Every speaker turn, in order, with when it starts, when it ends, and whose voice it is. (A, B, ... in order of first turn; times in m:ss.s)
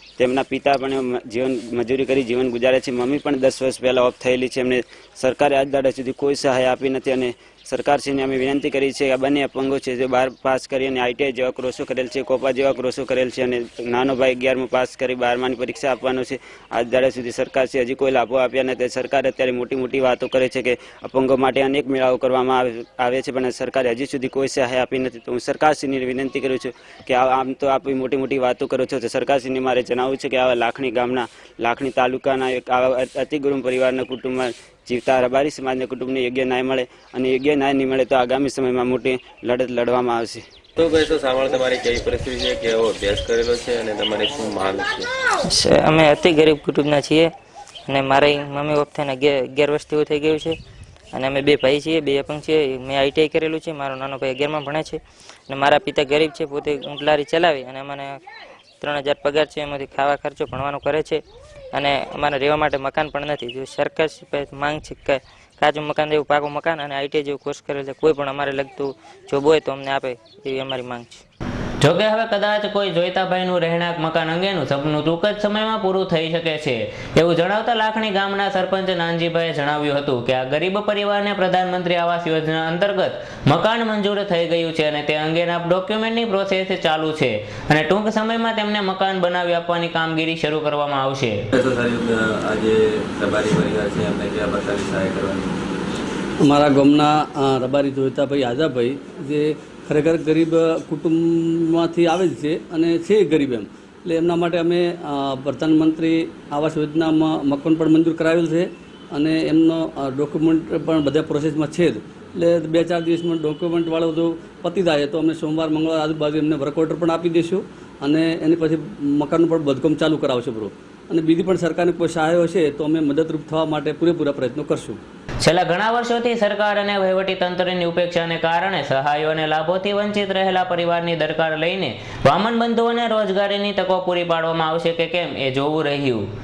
0:00.2-0:40.4 A
0:40.8-0:45.1 B
0:45.5-0:47.3 C
0:47.9-0:50.6 C
0:51.1-0:58.2 C
0:58.8-1:11.2 C
1:11.8-1:31.4 D
1:31.5-1:35.6 B
1:36.4-2:05.0 E
2:05.4-2:16.3 D